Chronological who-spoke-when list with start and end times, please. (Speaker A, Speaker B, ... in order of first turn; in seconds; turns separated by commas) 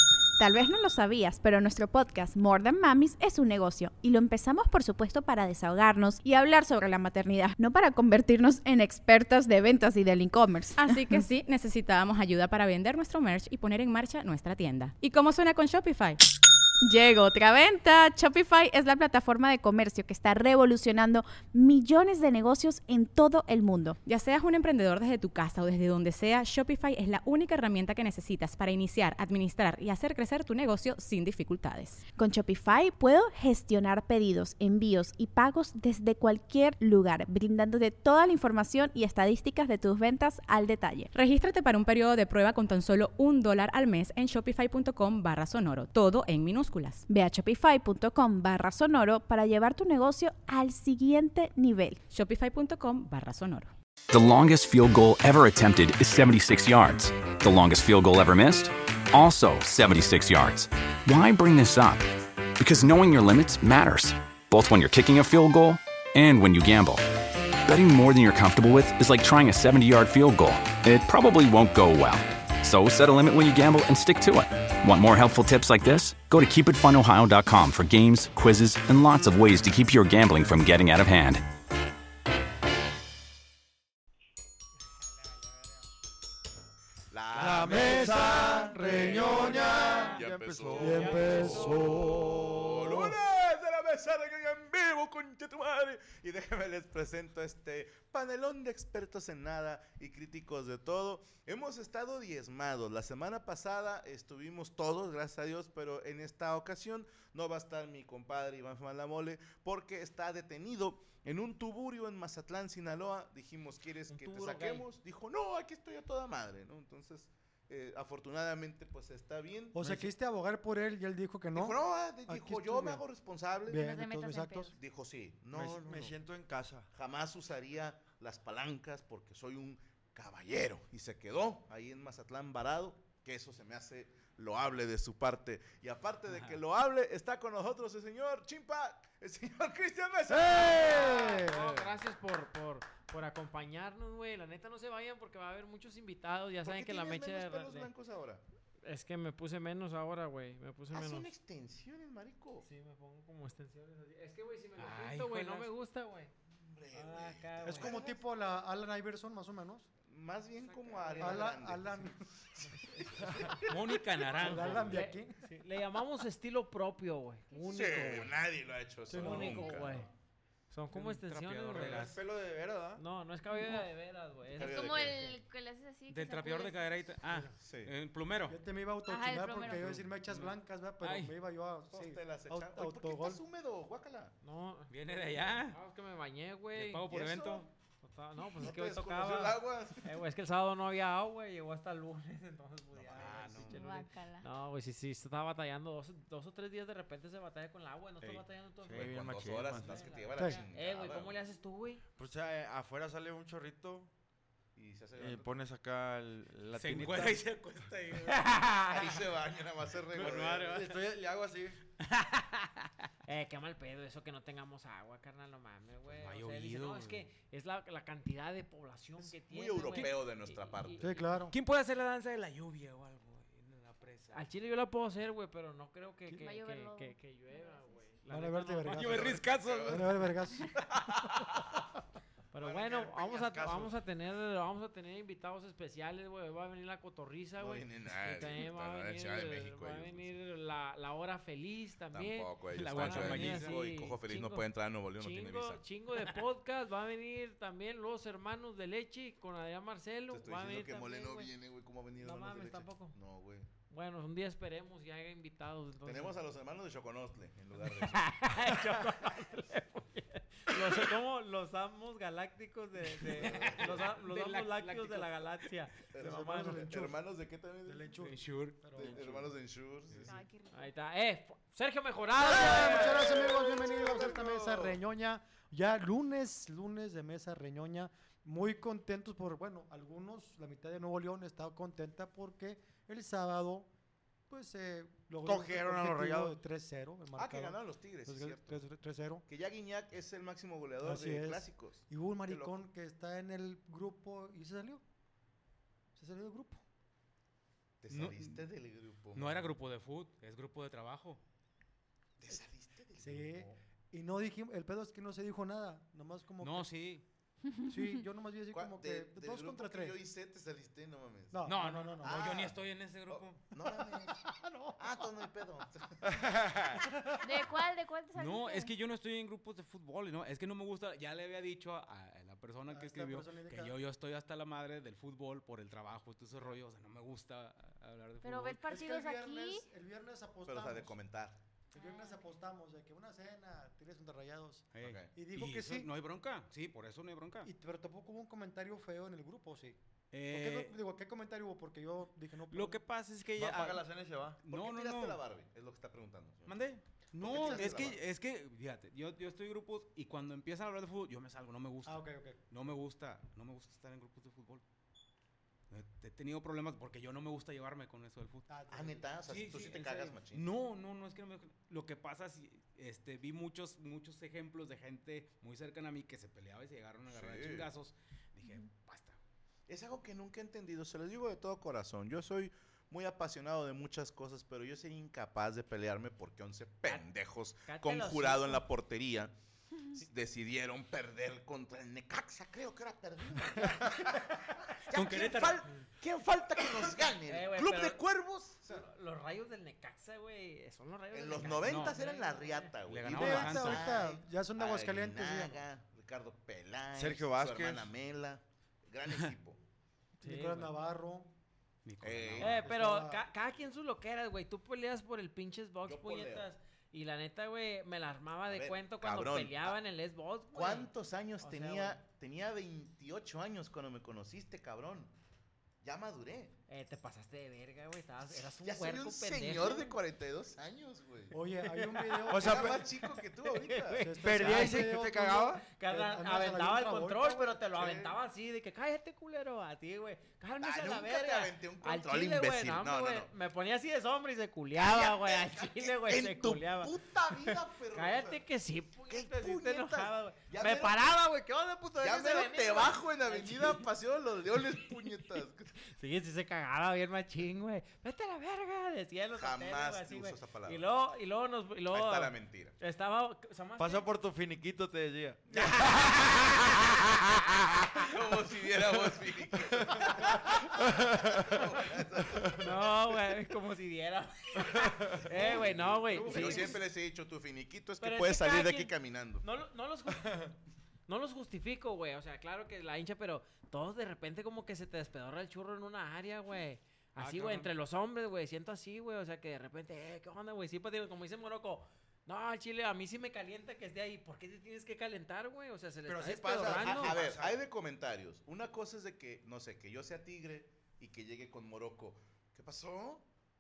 Speaker A: 0.4-11.2, Speaker B: 10.8-16.2, Speaker A: 16.8-24.0, Speaker B: 24.1-32.0, Speaker A: 32.2-41.1, Speaker B: 41.1-47.0, Speaker A: 47.1-52.0, Speaker B: 52.1-53.7, Speaker C: 54.1-67.0, Speaker C: 67.7-81.5, Speaker D: 87.1-88.6, Speaker E: 87.4-93.1, Speaker F: 87.4-88.1, Speaker G: 87.6-89.6, Speaker H: 88.9-91.9, Speaker D: 90.1-120.1, Speaker G: 90.8-92.9, Speaker H: 114.1-114.9, Speaker G: 119.7-123.0, Speaker D: 121.5-123.8, Speaker G: 123.7-124.7, Speaker I: 123.7-124.8, Speaker D: 124.8-126.2, Speaker E: 125.5-126.9, Speaker D: 126.9-141.4, Speaker F: 136.3-136.6, Speaker G: 140.3-141.9, Speaker H: 140.6-147.9, Speaker D: 146.7-148.4, Speaker H: 148.8-151.3, Speaker D: 150.9-152.7, Speaker H: 152.6-156.3, Speaker F: 154.8-155.7, Speaker D: 156.5-158.2, Speaker H: 156.9-158.0, Speaker G: 157.7-159.9, Speaker D: 160.1-163.7, Speaker H: 160.6-161.5, Speaker G: 161.2-162.1, Speaker F: 163.6-165.0, Speaker G: 164.3-165.4, Speaker H: 164.4-168.3, Speaker I: 167.5-168.2, Speaker D: 167.7-170.1, Speaker G: 169.1-169.8, Speaker H: 169.1-170.1, Speaker H: 170.7-172.1, Speaker F: 170.9-172.2, Speaker E: 171.7-173.0, Speaker H: 173.0-175.1, Speaker I: 174.6-176.8, Speaker D: 174.6-175.4, Speaker F: 176.1-178.6, Speaker D: 177.6-177.9, Speaker G: 178.5-183.4, Speaker I: 179.1-179.9, Speaker F: 179.7-181.4, Speaker D: 181.9-184.3, Speaker H: 184.4-184.9, Speaker F: 184.9-185.8, Speaker H: 185.4-187.0, Speaker F: 186.8-187.7, Speaker D: 187.1-187.7, Speaker H: 188.0-199.2, Speaker D: 188.6-190.1, Speaker D: 192.9-193.7, Speaker F: 193.2-193.8, Speaker I: 193.7-194.5, Speaker E: 198.3-200.0, Speaker D: 198.9-201.4, Speaker H: 199.7-202.0, Speaker G: 200.4-200.6, Speaker E: 202.2-204.1, Speaker D: 204.8-205.5, Speaker E: 205.2-207.5, Speaker F: 206.7-208.6, Speaker H: 208.2-209.2, Speaker D: 208.9-210.8, Speaker E: 210.1-211.8, Speaker F: 210.2-211.0, Speaker F: 212.0-212.9, Speaker H: 213.2-221.2, Speaker F: 216.1-217.3, Speaker D: 219.2-221.2, Speaker G: 221.0-221.6, Speaker F: 221.5-224.4, Speaker H: 224.3-229.2, Speaker I: 226.3-228.2, Speaker G: 228.3-230.7, Speaker F: 228.9-230.4, Speaker D: 229.0-231.7, Speaker H: 232.5-251.5, Speaker D: 232.6-233.4, Speaker E: 232.9-233.9, Speaker D: 237.6-240.3, Speaker D: 242.1-245.8, Speaker F: 242.7-243.8, Speaker D: 250.3-253.7, Speaker H: 252.2-253.2, Speaker H: 253.9-256.4, Speaker D: 256.1-258.5, Speaker H: 257.8-266.6, Speaker F: 263.3-265.4, Speaker D: 263.4-263.9, Speaker D: 266.1-268.2, Speaker G: 266.2-267.2, Speaker G: 267.9-269.3, Speaker F: 268.2-268.8, Speaker D: 268.9-270.4, Speaker E: 269.0-269.5, Speaker I: 270.2-270.9, Speaker H: 270.7-273.2, Speaker G: 272.4-283.9, Speaker D: 272.6-275.0, Speaker G: 284.5-289.4, Speaker E: 285.4-286.6, Speaker D: 287.3-288.8, Speaker D: 289.5-292.9, Speaker G: 291.0-295.0, Speaker G: 296.2-296.8, Speaker D: 298.0-299.7, Speaker F: 298.1-298.6, Speaker F: 299.3-301.4, Speaker D: 302.4-303.8, Speaker G: 303.2-306.9, Speaker F: 306.6-307.2, Speaker I: 307.7-308.1, Speaker G: 307.9-310.2, Speaker D: 308.7-311.6, Speaker G: 311.5-312.7, Speaker F: 311.7-313.6, Speaker D: 312.2-312.8, Speaker D: 313.3-314.5, Speaker G: 314.3-315.1, Speaker D: 315.0-316.5, Speaker E: 316.2-317.0, Speaker I: 317.4-318.9, Speaker F: 318.4-328.8, Speaker G: 322.9-324.0, Speaker I: 328.4-329.9, Speaker G: 328.9-331.2, Speaker D: 330.7-331.6, Speaker G: 331.9-336.1, Speaker I: 331.9-332.4, Speaker F: 334.9-337.7, Speaker D: 335.0-335.3, Speaker G: 337.6-343.0, Speaker F: 340.3-341.0, Speaker F: 342.7-344.1, Speaker E: 343.6-344.6, Speaker F: 344.6-345.4, Speaker D: 344.7-346.8, Speaker F: 346.7-354.8, Speaker D: 347.4-348.2, Speaker G: 347.7-348.1, Speaker G: 352.1-352.6, Speaker F: 355.9-358.7, Speaker G: 358.7-359.3, Speaker D: 358.9-360.6, Speaker F: 359.5-369.4, Speaker D: 367.3-367.9, Speaker D: 369.9-379.5, Speaker H: 377.9-378.8, Speaker D: 380.1-389.1, Speaker F: 385.1-385.9, Speaker H: 387.5-388.2, Speaker H: 388.9-392.9, Speaker D: 391.3-399.8, Speaker F: 391.8-392.2, Speaker F: 393.1-394.1, Speaker G: 393.3-395.8, Speaker E: 397.1-398.1, Speaker G: 400.4-401.5, Speaker H: 400.4-400.9, Speaker F: 402.1-402.8, Speaker D: 402.2-402.8, Speaker H: 402.6-412.2, Speaker G: 402.7-403.4, Speaker D: 406.1-406.7, Speaker D: 408.7-410.0, Speaker D: 410.7-415.3, Speaker D: 416.0-416.8, Speaker H: 416.9-420.2, Speaker D: 418.8-421.6, Speaker G: 421.5-422.9, Speaker H: 421.9-444.1, Speaker D: 422.5-424.3, Speaker E: 422.5-423.1, Speaker G: 424.2-427.8, Speaker E: 424.4-425.9, Speaker D: 427.9-428.4, Speaker D: 430.8-433.5, Speaker D: 435.0-438.6, Speaker D: 439.3-441.3, Speaker D: 442.2-446.0, Speaker H: 446.1-454.3, Speaker D: 449.6-451.1, Speaker D: 452.1-452.9, Speaker E: 454.0-456.1, Speaker D: 455.7-456.4, Speaker H: 455.7-456.9, Speaker D: 458.2-463.1, Speaker E: 459.9-461.9, Speaker E: 462.5-462.8, Speaker H: 462.8-467.0, Speaker E: 464.9-466.9, Speaker D: 465.4-469.6, Speaker G: 466.4-466.9, Speaker H: 468.2-470.7, Speaker H: 471.3-487.4, Speaker F: 477.4-477.9, Speaker E: 486.3-487.8, Speaker D: 486.9-493.4